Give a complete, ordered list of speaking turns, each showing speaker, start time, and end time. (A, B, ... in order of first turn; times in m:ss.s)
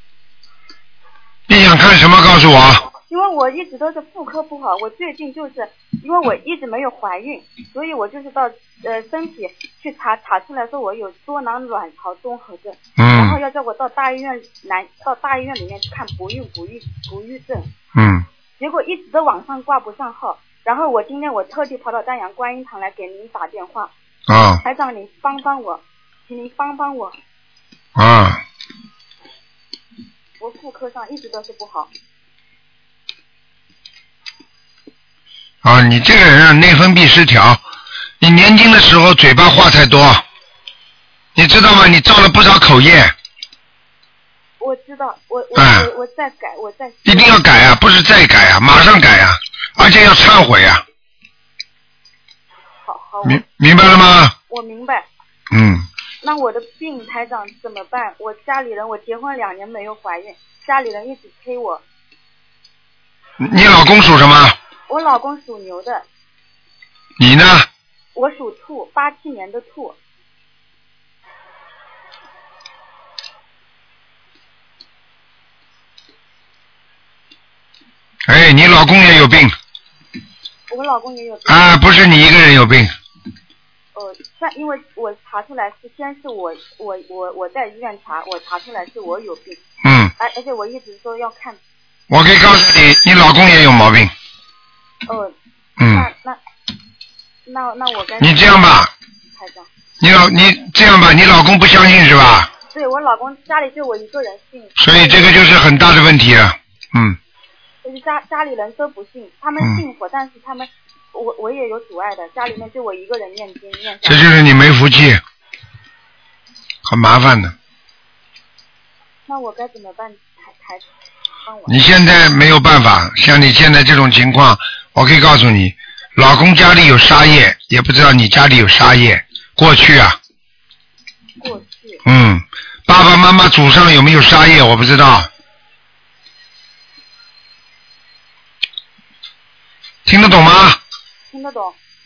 0:01.5-0:02.8 A
0:03.1-0:17.7 B
0:13.0-0:13.4 A
0:17.9-0:18.2 A
0:18.6-0:23.9 B
0:24.3-0:24.6 A
0:24.6-0:27.2 B
0:28.0-0:28.4 A
0:30.4-0:31.9 B
0:35.6-0:37.6 A
0:38.2-0:40.2 A
0:41.4-0:43.1 A
0:44.6-0:47.4 B
0:45.5-0:45.9 A
0:47.0-0:50.8 A
0:52.8-0:53.4 B
0:53.2-0:54.3 A
0:54.5-0:55.1 B
0:55.5-0:55.8 A
0:56.2-1:01.8 B
1:03.4-1:04.5 A
1:04.9-1:06.0 B
1:07.2-1:07.7 A
1:08.1-1:10.0 B
1:18.3-1:19.5 A
1:20.7-1:22.0 B
1:21.5-1:22.9 A
1:23.9-1:29.6 B
1:29.8-1:30.1 A
1:30.2-1:31.6 B
1:32.1-1:34.1 A
1:35.0-1:35.3 B
1:35.8-1:36.1 A
1:35.8-1:36.4 B
1:37.4-1:38.8 B
1:38.2-1:38.9 A
1:39.3-1:39.7 B
1:40.0-1:42.5 A
1:42.7-1:45.5 B
1:44.8-1:47.2 A
1:47.8-1:54.3 B
1:54.0-1:55.2 A
1:56.9-1:57.5 A
1:59.2-2:00.9 B
2:01.4-2:01.8 B
2:01.7-2:10.2 A
2:11.4-2:12.0 B
2:12.0-2:15.3 A
2:20.0-2:20.8 A
2:21.3-2:21.8 B